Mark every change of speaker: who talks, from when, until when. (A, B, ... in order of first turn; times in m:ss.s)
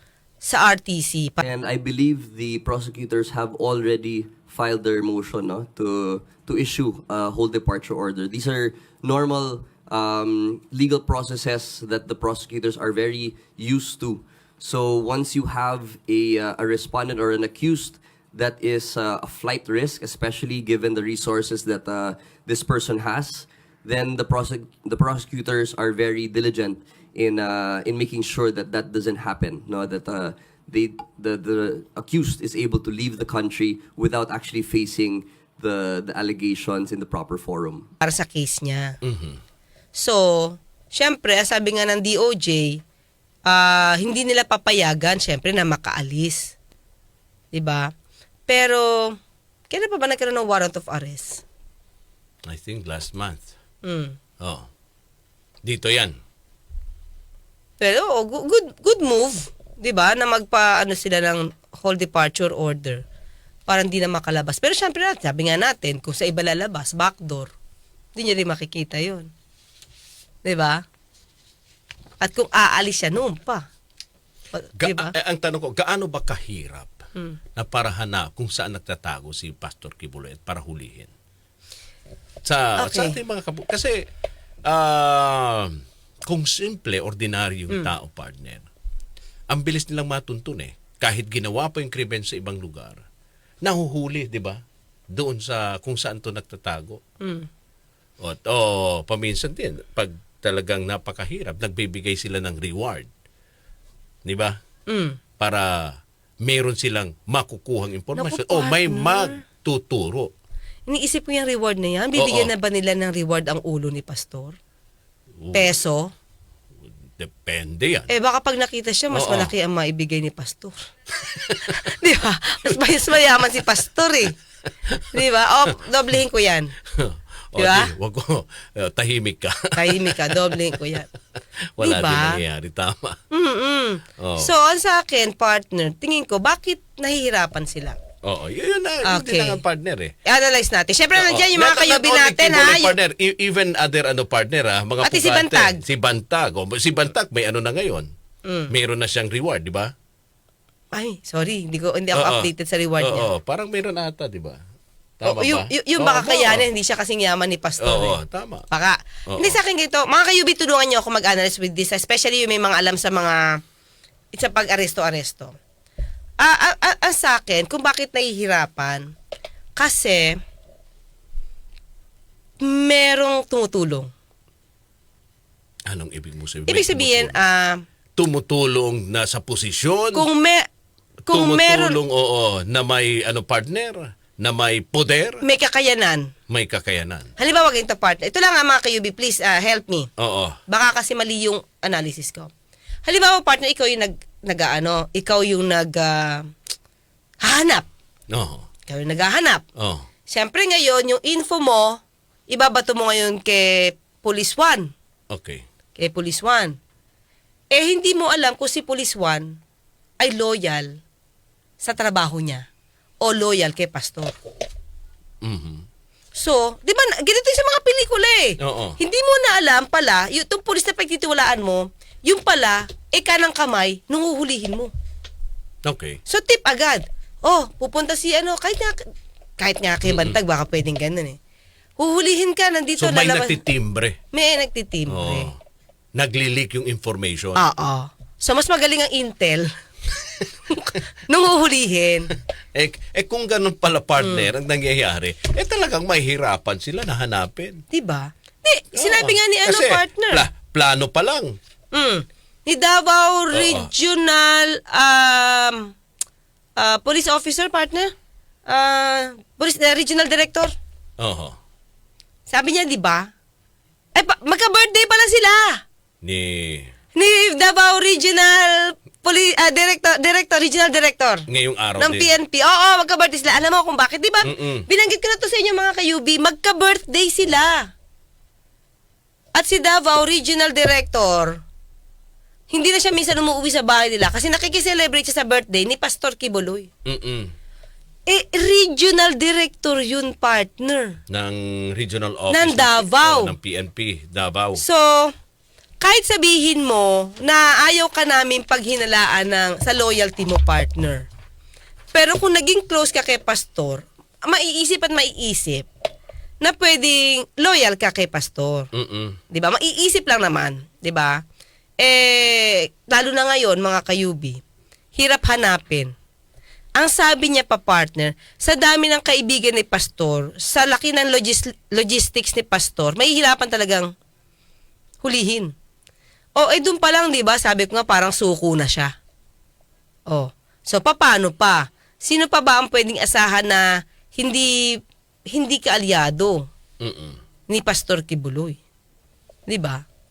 0:00.4-0:01.4 A
0:01.4-0:37.9 B
0:38.0-0:39.0 A
0:39.0-0:39.4 C
0:40.0-0:42.8 A
0:43.5-0:46.6 A
0:47.5-0:47.9 A
0:48.5-0:49.2 A
0:49.7-0:51.4 A
0:52.5-0:53.5 C
0:53.8-0:54.2 A
0:54.4-0:54.7 C
0:55.6-0:56.2 C
0:57.8-1:03.0 A
1:03.7-1:07.5 A
1:08.2-1:09.3 A
1:10.4-1:10.8 A
1:12.2-1:13.7 A
1:14.5-1:15.1 A
1:14.8-1:17.0 C
1:17.6-1:21.1 C
1:22.4-1:24.0 C
1:22.8-1:23.2 A
1:24.6-1:28.7 C
1:29.5-1:33.0 C
1:33.6-1:37.0 C
1:37.2-1:37.5 A
1:38.2-1:43.1 C
1:44.2-1:44.6 C
1:44.9-1:45.2 A
1:45.4-1:50.3 C
1:48.2-1:49.4 A
1:50.9-1:54.6 A
1:52.2-1:52.5 C
1:55.4-1:55.7 C
1:55.5-1:56.1 A
1:57.2-1:58.1 C
1:58.1-2:00.8 A
1:59.1-1:59.5 C
2:01.4-2:04.3 A
2:01.5-2:01.8 C
2:04.9-2:05.2 C
2:05.1-2:06.7 A
2:06.9-2:10.6 C
2:07.6-2:07.9 A
2:09.8-2:11.1 A
2:11.8-2:13.2 C
2:11.8-2:12.4 A
2:13.3-2:18.0 A
2:14.2-2:14.5 C
2:18.2-2:20.1 C
2:19.1-2:19.6 A
2:20.3-2:23.0 A
2:21.2-2:28.1 C
2:25.0-2:25.8 A
2:28.4-2:28.7 A
2:28.7-2:29.9 C
2:30.9-2:33.3 A
2:32.1-2:32.5 C
2:33.0-2:34.6 C
2:35.2-2:36.7 C
2:35.2-2:38.2 A
2:37.8-2:38.7 C
2:38.7-2:43.6 A
2:39.3-2:39.6 C
2:44.3-2:45.6 A
2:46.4-2:49.1 A
2:49.8-2:50.4 A
2:52.6-2:54.1 A
2:55.9-2:57.4 C
2:56.7-2:57.8 A
2:58.2-3:00.2 C
3:00.2-3:00.7 A
3:01.3-3:05.4 C
3:01.3-3:02.0 A
3:05.4-3:06.3 A
3:06.5-3:07.3 C
3:07.4-3:10.1 A
3:10.2-3:10.6 C
3:10.7-3:12.5 A
3:13.0-3:16.5 A
3:17.4-3:17.9 A
3:18.3-3:18.7 C
3:18.9-3:19.6 A
3:19.8-3:20.0 C
3:20.3-3:24.9 A
3:25.3-3:25.6 C
3:26.0-3:26.8 A
3:27.7-3:29.6 A
3:30.2-3:31.0 A
3:31.8-3:32.7 A
3:33.2-3:34.4 A
3:35.4-3:35.8 C
3:36.4-3:44.9 A
3:38.6-3:39.0 C
3:45.8-3:46.2 C
3:46.3-3:49.0 A
3:49.6-3:51.4 A
3:50.0-3:50.4 C
3:52.0-3:53.6 A
3:53.0-3:54.2 C
3:54.3-3:55.5 A
3:55.1-3:55.6 C
3:56.2-3:57.6 C
3:57.6-3:59.7 A
4:00.7-4:02.3 A
4:02.7-4:07.8 C
4:04.2-4:04.5 A
4:07.9-4:10.4 A
4:09.0-4:11.6 C
4:11.9-4:15.9 A
4:13.5-4:13.9 C
4:16.8-4:18.1 A
4:18.7-4:20.7 A
4:21.2-4:21.6 C
4:22.5-4:23.3 A
4:24.2-4:25.8 A
4:26.2-4:26.9 C
4:27.2-4:31.4 A
4:31.5-4:32.3 C
4:32.0-4:37.9 A
4:34.4-4:34.9 C
4:39.6-4:41.6 A
4:42.7-4:46.9 A
4:47.0-4:47.5 C
4:48.3-4:51.2 A
4:51.3-4:54.8 C
4:52.5-4:53.5 A
4:54.8-4:55.3 A
4:56.0-5:01.3 A
5:02.1-5:05.9 A
5:06.6-5:08.9 A
5:08.9-5:09.4 C
5:09.5-5:11.4 A
5:12.0-5:14.6 A
5:15.2-5:16.1 A
5:17.0-5:24.1 A
5:25.2-5:25.7 A
5:26.6-5:29.1 A
5:30.3-5:35.0 A
5:35.5-5:36.7 A
5:37.0-5:37.4 C
5:37.7-5:38.8 A
5:39.7-5:40.0 A